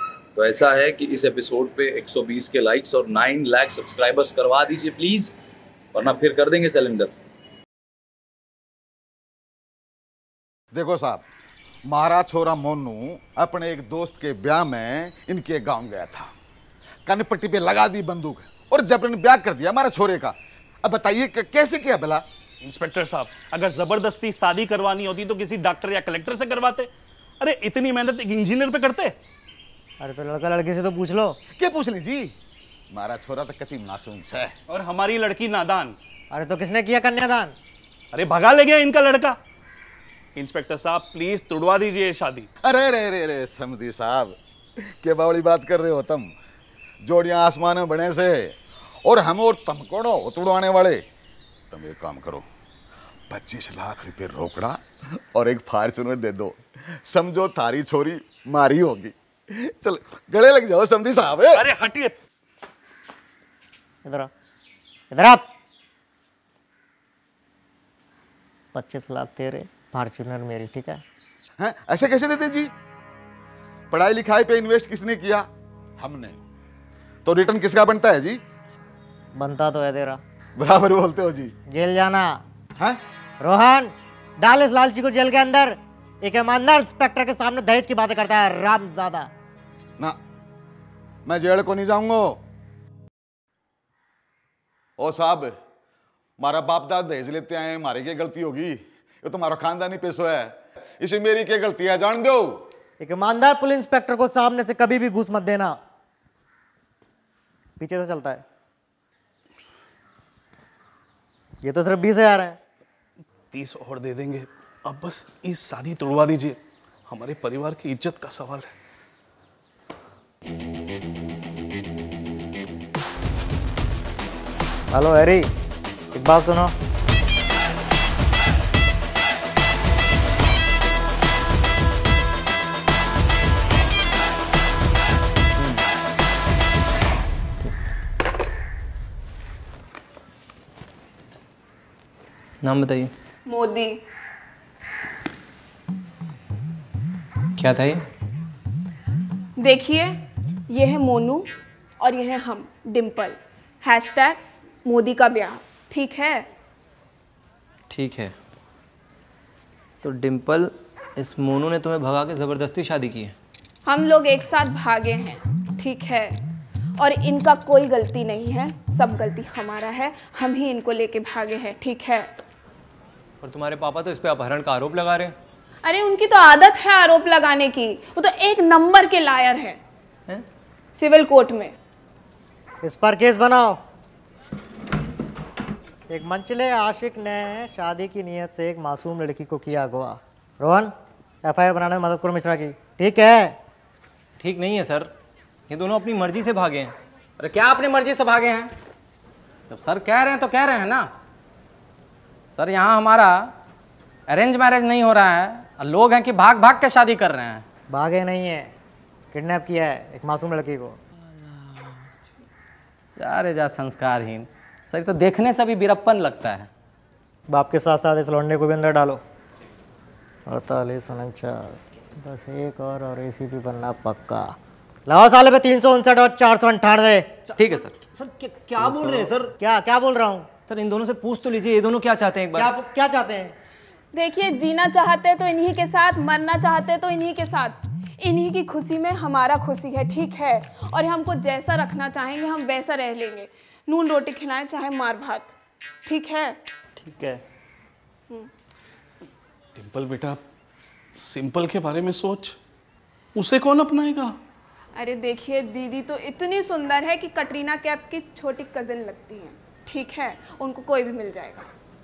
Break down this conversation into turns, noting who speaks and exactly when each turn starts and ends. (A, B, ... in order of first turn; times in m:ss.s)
0:00.4-0:05.3 A
0:06.0-0:07.1 A
0:10.7-0:11.2 B
0:11.9-0:16.3 B
0:17.0-0:22.2 B
0:22.6-0:26.9 C
0:27.4-0:29.2 C
0:30.0-0:31.4 D
0:31.5-0:32.3 B
0:32.9-0:34.5 B
0:34.7-0:36.0 C
0:36.3-0:37.5 D
0:38.1-0:39.4 C
0:40.4-0:42.5 C
0:42.6-0:44.3 B
0:45.0-0:46.3 B
0:47.0-0:51.0 B
0:51.7-0:52.4 B
0:53.3-0:54.8 B
0:55.3-1:01.7 B
1:01.5-1:02.1 C
1:04.0-1:04.3 D
1:05.1-1:05.4 D
1:08.7-1:11.0 D
1:11.6-1:12.7 B
1:13.9-1:15.4 B
1:16.0-1:16.4 B
1:17.2-1:18.4 B
1:19.4-1:20.2 D
1:20.6-1:21.5 B
1:21.7-1:22.3 D
1:23.4-1:29.3 D
1:31.2-1:32.4 B
1:35.0-1:35.6 B
1:36.4-1:42.6 B
1:43.0-1:45.7 D
1:47.8-1:48.4 D
1:51.6-1:52.6 D
1:53.5-1:58.7 C
2:04.9-2:05.5 D
2:06.1-2:06.7 D
2:22.6-2:23.1 E
2:23.4-2:24.0 F
2:27.6-2:28.0 E
2:29.6-2:30.2 F
2:30.7-2:31.5 F
2:32.0-2:36.4 F
2:37.9-2:38.3 E
2:40.0-2:43.4 E
2:43.8-2:46.4 F
2:47.0-2:52.3 F
2:53.4-2:55.3 E
2:55.8-2:59.8 F
3:01.0-3:01.7 F
3:02.8-3:03.8 D
3:06.1-3:10.9 D
3:11.4-3:13.5 D
3:14.4-3:15.1 E
3:15.7-3:16.9 E
3:17.4-3:18.7 G
3:19.7-3:21.1 G
3:22.5-3:23.5 G
3:24.3-3:27.6 G
3:27.9-3:28.7 D
3:29.3-3:31.0 D
3:33.2-3:36.7 G
3:37.5-3:39.2 D
3:40.5-3:44.5 D
3:45.0-3:47.3 D
3:47.6-3:48.0 G
3:48.1-3:49.5 E
3:49.6-3:50.5 D
3:50.7-3:52.7 E
3:52.5-3:53.5 D
3:54.1-4:05.5 F
4:06.0-4:06.6 F
4:07.0-4:07.4 E
4:09.8-4:10.4 C
4:11.2-4:12.6 C
4:13.4-4:14.4 C
4:15.0-4:21.7 F